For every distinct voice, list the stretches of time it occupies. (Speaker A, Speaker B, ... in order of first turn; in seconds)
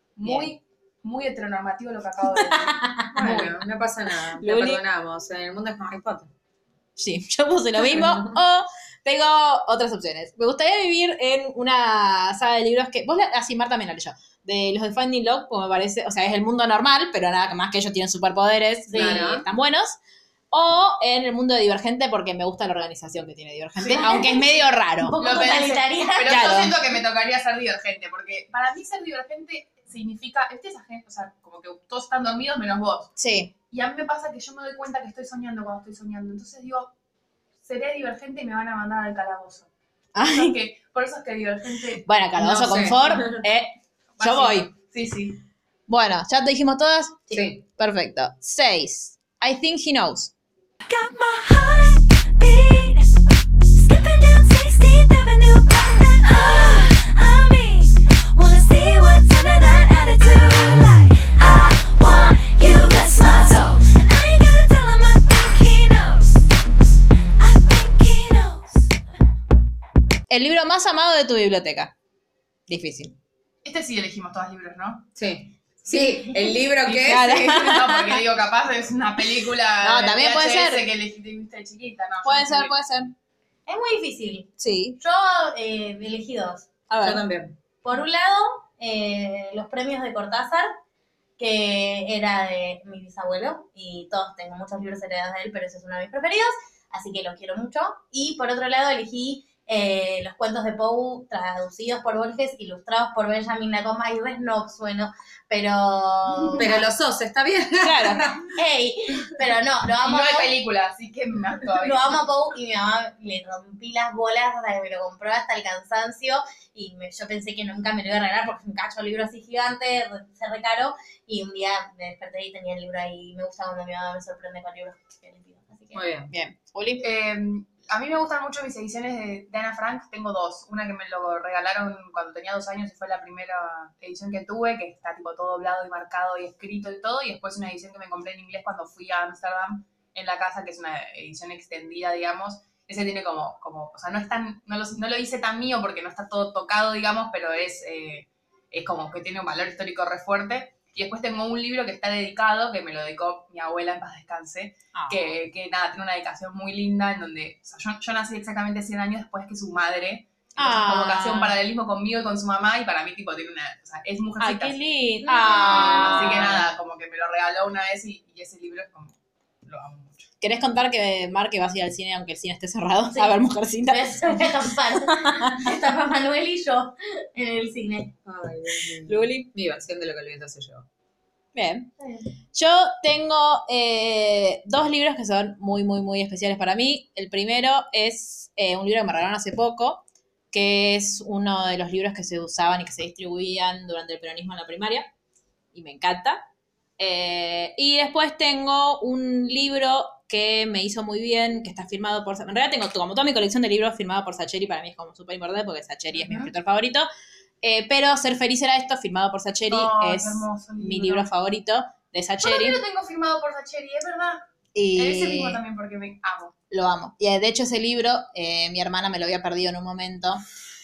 Speaker A: 0.1-2.8, 25.2-33.1, 33.7-36.9, 37.6-39.7, 40.2-42.8, 44.2-45.4, 73.6-75.1, 75.9-82.7, 106.4-106.7, 110.0-112.2, 127.0-164.8, 165.6-170.3, 206.2-206.5, 209.7-211.3, 212.4-216.5
Speaker B: 0.2-0.5, 2.4-3.6, 4.3-4.8, 7.0-20.0, 20.5-25.2, 26.2-26.8, 33.2-33.5, 40.1-40.6, 42.0-44.7, 45.9-50.3, 70.3-71.9, 72.7-73.2, 77.0-78.2, 79.8-80.8, 82.2-83.1, 84.6-85.0, 86.9-87.2, 107.8-108.4, 126.3-127.0, 154.9-155.3, 160.6-161.6, 164.4-166.7, 170.4-175.7, 179.0-179.5, 181.5-181.9, 182.5-195.1, 195.7-196.4, 197.0-207.1, 207.6-212.8, 214.7-215.6, 216.7-220.4
Speaker C: 3.1-6.3, 7.9-8.3, 18.9-19.4, 42.4-43.4, 47.3-47.6, 75.2-77.6, 87.0-87.5, 106.6-108.5, 125.9-126.3, 178.2-180.8
Speaker D: 18.9-19.3, 23.8-26.6, 83.7-86.7, 87.8-90.7, 91.4-106.8, 108.5-110.5, 111.8-126.0, 165.2-166.5, 173.1-178.1, 182.0-182.2
Speaker E: 50.9-53.1, 53.7-66.4, 67.4-68.8